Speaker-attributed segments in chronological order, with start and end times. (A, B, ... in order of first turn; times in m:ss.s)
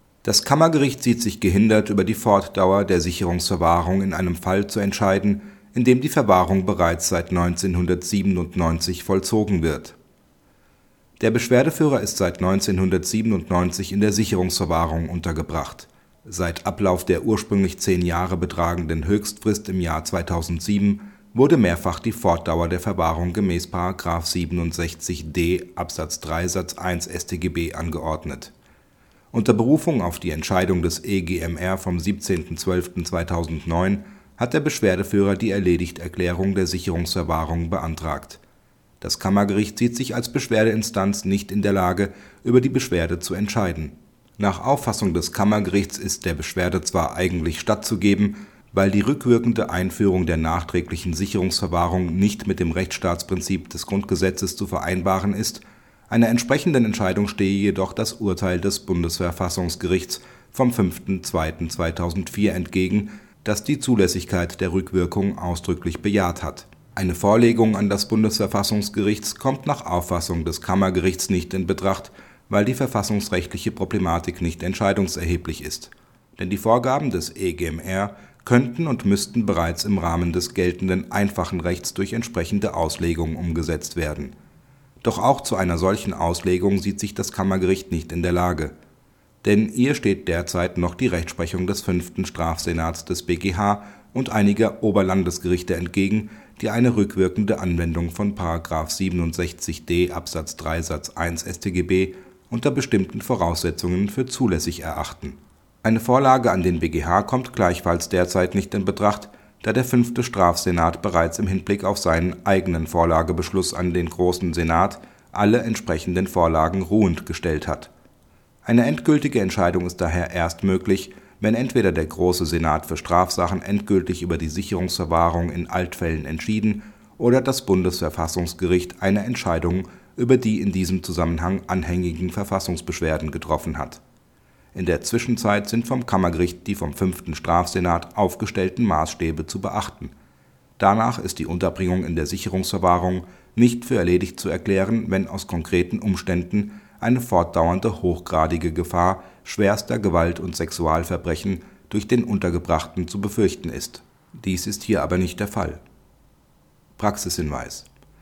0:00.2-0:10.0 A
0:11.2-0:28.5 A
0:29.3-0:38.4 A
0:39.0-1:24.4 A
1:25.0-1:28.8 A
1:29.4-1:57.9 A
1:58.6-2:14.0 A
2:14.7-2:20.1 A
2:20.8-2:35.8 A
2:37.0-2:37.9 A